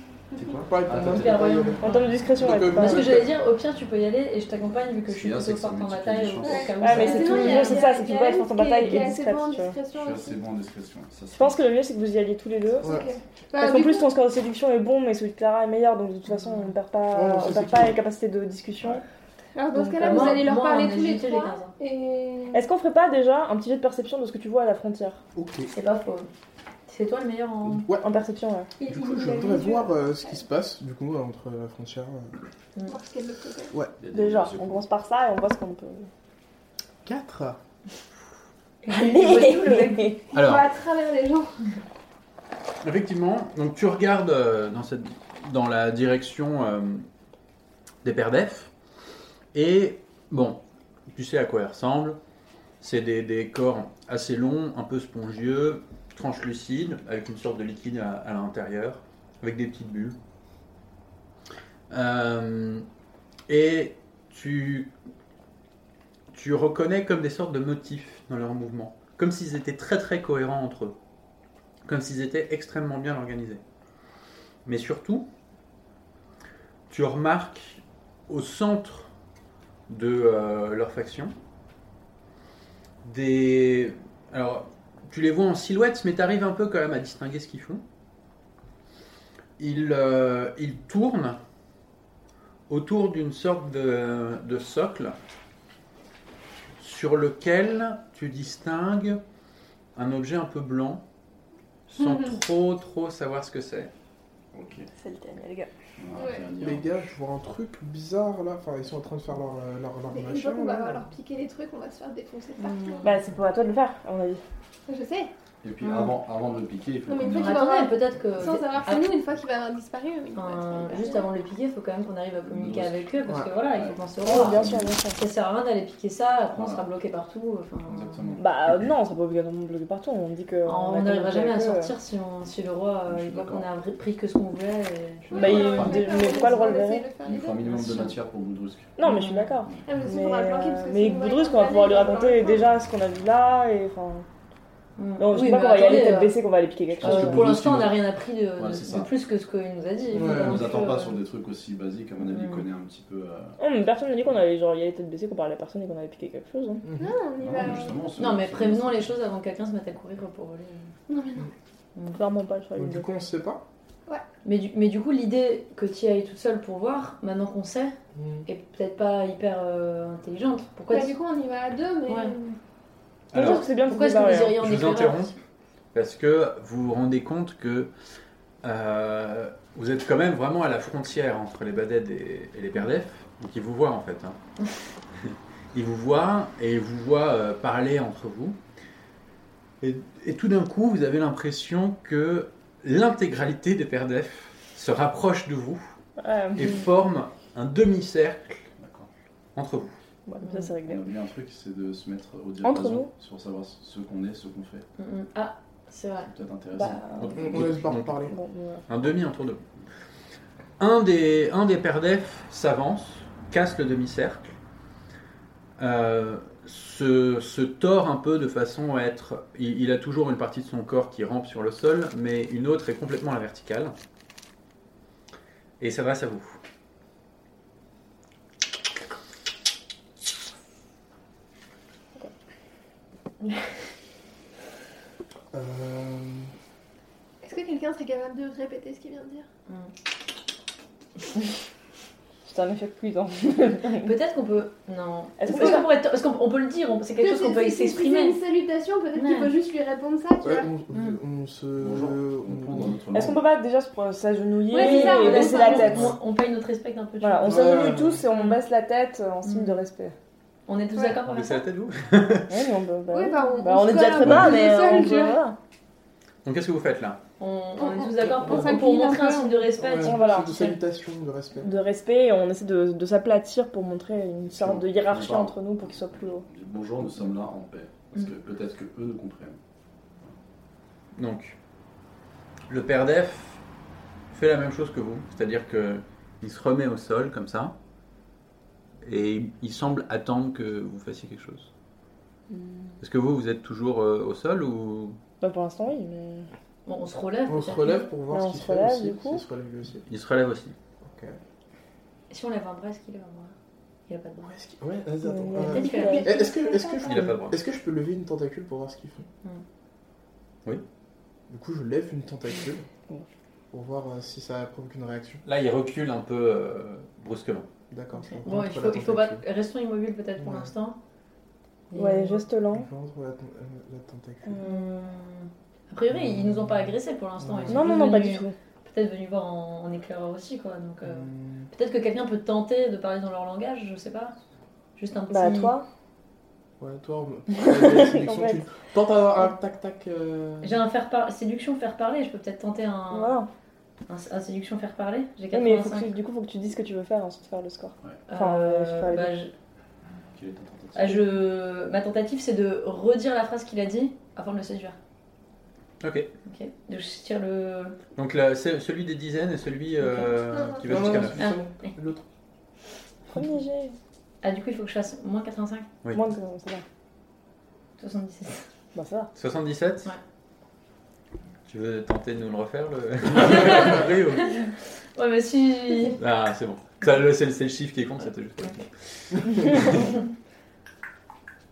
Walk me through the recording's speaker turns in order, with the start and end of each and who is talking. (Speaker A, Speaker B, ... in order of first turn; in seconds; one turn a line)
Speaker A: 0.3-0.7
Speaker B: 0.3-1.7
Speaker C: 0.7-1.8
Speaker D: 0.9-8.0
Speaker E: 1.8-3.2
Speaker C: 2.4-3.3
Speaker B: 5.1-7.1
Speaker A: 6.4-10.4
Speaker E: 6.8-9.8
Speaker D: 8.8-9.1
Speaker B: 9.9-11.6
Speaker E: 11.3-13.0
Speaker C: 12.8-13.1
Speaker A: 12.8-14.1
Speaker E: 13.6-19.0
Speaker C: 17.1-18.0
Speaker A: 19.5-22.6
Speaker E: 19.7-20.5
Speaker D: 20.0-21.7
Speaker E: 22.5-25.2
Speaker C: 25.3-25.7
Speaker D: 25.7-26.3
Speaker D: 26.9-27.9
Speaker C: 27.6-28.1
Speaker E: 28.0-28.7
Speaker A: 28.8-30.4
Speaker C: 28.9-32.3
Speaker A: 32.9-33.7
Speaker C: 33.7-34.0
Speaker B: 34.0-34.9
Speaker E: 34.1-36.1
Speaker C: 37.0-37.6
Speaker D: 38.8-40.1
Speaker E: 38.9-40.2
Speaker A: 39.5-41.6
Speaker F: 40.3-40.7
Speaker F: 42.8-47.1
Speaker F: 48.0-48.7
Speaker F: 49.5-52.2
Speaker F: 52.8-60.2
Speaker F: 61.9-62.8
Speaker F: 63.5-64.9
Speaker F: 66.3-71.0
Speaker F: 71.8-73.6
Speaker F: 74.7-75.3
Speaker F: 76.9-79.1
Speaker F: 79.9-81.3
Speaker F: 83.0-87.8
Speaker F: 89.6-91.4
Speaker F: 92.7-95.2
Speaker F: 96.8-99.2
Speaker F: 100.0-101.0
Speaker F: 101.9-103.9
Speaker B: 104.5-104.9
Speaker E: 105.0-105.7
Speaker B: 106.0-107.1
Speaker A: 106.1-106.5
Speaker C: 106.6-110.9
Speaker A: 110.1-113.2
Speaker D: 112.6-113.2
Speaker E: 113.0-114.4
Speaker A: 114.9-115.3
Speaker B: 115.6-118.6
Speaker A: 117.0-121.3
Speaker D: 117.3-119.1
Speaker D: 120.3-128.2
Speaker B: 122.4-124.9
Speaker E: 124.2-125.2
Speaker B: 126.5-126.8
Speaker B: 127.8-128.9
Speaker E: 128.4-131.9
Speaker D: 130.7-136.0
Speaker B: 133.1-133.7
Speaker B: 135.2-136.5
Speaker A: 135.3-138.1
Speaker E: 135.3-137.1
Speaker B: 137.2-138.9
Speaker D: 137.6-138.1
Speaker E: 139.0-144.2
Speaker D: 139.0-139.7
Speaker A: 139.8-142.6
Speaker D: 145.0-146.4
Speaker E: 145.2-147.4
Speaker B: 147.0-149.1
Speaker D: 147.0-151.2
Speaker B: 150.1-153.6
Speaker C: 150.1-150.5
Speaker D: 152.3-152.6
Speaker E: 153.6-156.8
Speaker A: 157.0-158.1
Speaker B: 157.4-159.1
Speaker D: 158.2-160.9
Speaker A: 161.1-161.5
Speaker E: 162.1-163.1
Speaker C: 162.7-163.6
Speaker D: 164.4-171.2
Speaker C: 168.2-168.4
Speaker A: 170.9-172.6
Speaker D: 172.1-172.3
Speaker F: 173.3-173.7
Speaker E: 173.3-174.6
Speaker D: 173.3-175.4
Speaker F: 174.6-175.3
Speaker F: 175.9-177.9
Speaker F: 178.6-184.4
Speaker F: 185.3-188.6
Speaker F: 189.8-195.9
Speaker E: 196.2-196.8
Speaker F: 196.5-198.7
Speaker B: 198.8-199.1
Speaker F: 199.6-199.9
Speaker E: 200.2-201.0
Speaker D: 200.4-200.7
Speaker B: 200.8-204.8
Speaker E: 202.6-203.1
Speaker D: 205.0-206.3
Speaker B: 206.2-207.1
Speaker E: 206.7-207.7
Speaker F: 207.1-208.2
Speaker C: 207.3-208.3
Speaker E: 208.2-209.1
Speaker F: 208.9-209.6
Speaker F: 210.8-214.6
Speaker F: 215.8-223.9
Speaker F: 225.8-226.6
Speaker C: 235.5-236.5
Speaker A: 237.4-239.4
Speaker E: 242.4-244.1
Speaker D: 243.9-248.4
Speaker E: 245.4-245.9
Speaker A: 245.5-245.8
Speaker A: 247.2-250.7
Speaker D: 249.1-249.5
Speaker C: 250.4-253.0
Speaker B: 251.8-253.4
Speaker E: 253.1-256.1
Speaker A: 254.7-256.0
Speaker D: 254.7-258.6
Speaker E: 257.2-260.1
Speaker C: 257.4-258.2
Speaker D: 259.4-259.8
Speaker D: 260.7-261.6
Speaker A: 260.9-261.2
Speaker F: 261.2-262.5
Speaker E: 262.5-265.6
Speaker A: 263.1-265.4
Speaker F: 266.4-267.2
Speaker D: 267.4-270.6
Speaker A: 267.8-269.7
Speaker C: 269.8-271.7
Speaker E: 270.0-270.8
Speaker E: 271.6-276.4
Speaker B: 274.5-279.6
Speaker F: 281.1-281.6
Speaker F: 282.7-283.6
Speaker F: 284.3-287.8
Speaker F: 289.0-291.7
Speaker E: 292.5-292.9
Speaker F: 293.0-295.2
Speaker E: 295.4-296.5
Speaker D: 296.9-298.1
Speaker C: 297.5-300.1
Speaker E: 298.3-299.4
Speaker F: 300.1-300.7
Speaker C: 301.0-301.4
Speaker D: 302.3-303.5
Speaker D: 304.1-304.5
Speaker C: 304.4-309.2
Speaker E: 305.2-307.3
Speaker D: 305.7-306.3
Speaker A: 305.9-306.6
Speaker F: 307.1-307.6
Speaker C: 311.5-312.8
Speaker C: 313.7-315.4
Speaker F: 315.4-317.7
Speaker C: 317.9-319.4
Speaker D: 318.3-321.0
Speaker C: 320.4-320.7
Speaker D: 321.9-322.4
Speaker E: 321.9-322.9
Speaker C: 322.7-324.6
Speaker E: 324.4-324.8
Speaker D: 324.6-334.3
Speaker C: 326.1-326.8
Speaker C: 327.4-327.8
Speaker E: 327.7-328.5
Speaker C: 331.0-331.7
Speaker D: 335.0-335.7
Speaker E: 335.3-335.9
Speaker C: 336.8-340.8
Speaker E: 337.5-338.6
Speaker D: 340.6-343.4
Speaker E: 343.1-343.5
Speaker D: 344.1-346.1
Speaker E: 345.5-349.4
Speaker D: 348.3-349.5
Speaker B: 350.3-351.2
Speaker D: 350.9-354.9
Speaker F: 356.0-356.3
Speaker D: 356.4-358.0
Speaker F: 358.1-361.5
Speaker A: 360.4-361.2
Speaker C: 360.8-362.2
Speaker E: 363.3-363.9
Speaker D: 364.4-365.9
Speaker E: 366.1-366.8
Speaker D: 368.0-368.7
Speaker E: 368.9-369.3
Speaker F: 369.3-370.1
Speaker F: 371.7-374.5
Speaker D: 373.5-376.2
Speaker F: 376.1-380.0